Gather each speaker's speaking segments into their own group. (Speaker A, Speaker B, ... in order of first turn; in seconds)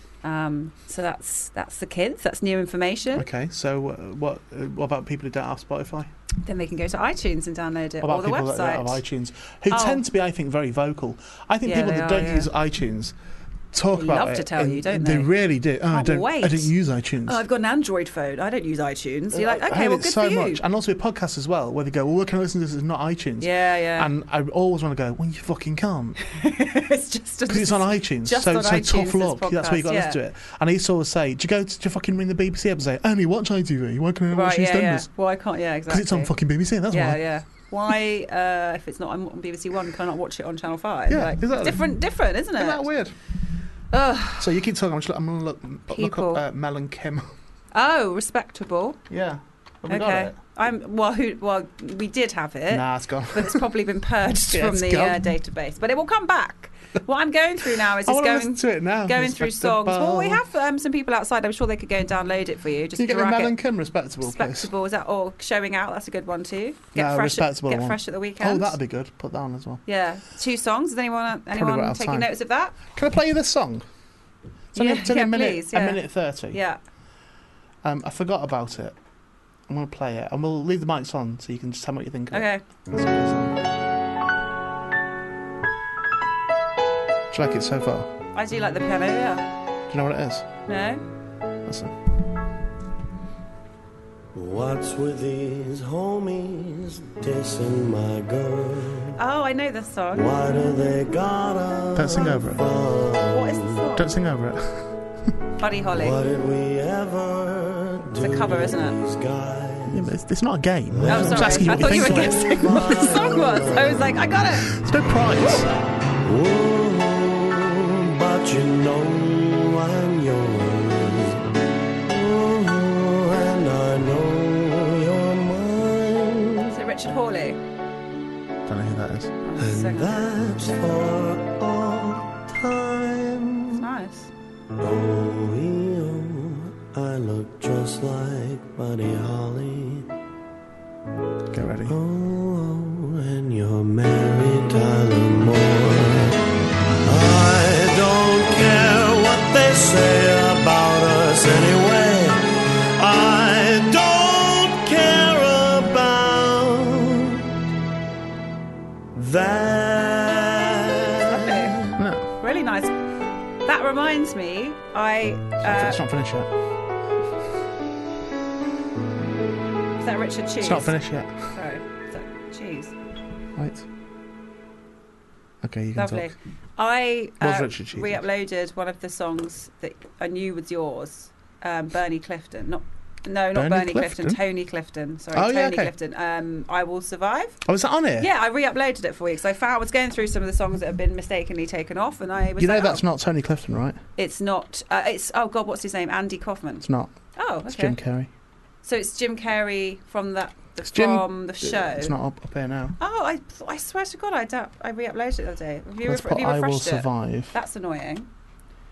Speaker A: 0.2-3.3, 6.4-9.0, 9.7-10.0, 11.7-12.5, 13.9-15.3, 15.9-16.7, 17.2-20.6, 23.4-24.1, 26.3-30.2, 34.3-36.3, 36.9-42.9, 43.9-44.5, 45.9-46.4, 47.7-49.0, 49.9-63.6, 64.2-68.8, 69.9-72.8, 74.8-76.8, 82.3-82.6, 88.3-89.5, 90.7-91.0, 99.2-100.5, 103.3-104.1, 105.6-106.2, 108.2-109.0, 111.1-114.7, 126.7-127.6, 129.4-130.4, 133.7-134.3, 161.3-161.8, 162.4-162.9, 163.6-166.0, 170.0-170.9, 171.5-172.9, 176.0-187.6, 188.2-193.0, 194.2-198.0, 198.8-202.1, 203.0-208.3
Speaker B: 3.1-6.1, 8.0-13.2, 13.7-17.4, 19.3-26.2, 27.5-35.1, 35.9-37.2, 41.1-42.0, 42.5-43.1, 44.4-47.3, 49.1-50.4, 52.7-53.6, 54.5-55.3, 57.8-60.4, 63.0-64.7, 67.0-69.8, 71.5-73.8, 74.7-76.6, 77.8-79.0, 79.7-83.6, 87.3-88.1, 89.9-90.5, 91.7-92.0, 102.0-102.7, 104.0-105.0, 109.9-112.8, 114.7-115.7, 128.7-129.3, 141.5-141.9, 162.0-162.3, 165.6-166.5, 170.6-171.5, 173.6-173.9, 175.6-176.3, 177.4-178.2, 183.5-184.4, 185.3-185.9, 187.7-188.3, 192.6-194.0, 196.8-197.1, 197.7-198.3, 200.8-203.0, 206.0-207.6
Speaker C: 94.3-99.2, 100.1-103.8, 106.0-110.1, 110.9-114.2, 116.2-121.5, 122.1-126.8, 129.6-133.8, 134.8-140.1, 141.9-146.4, 147.0-157.5, 159.2-161.9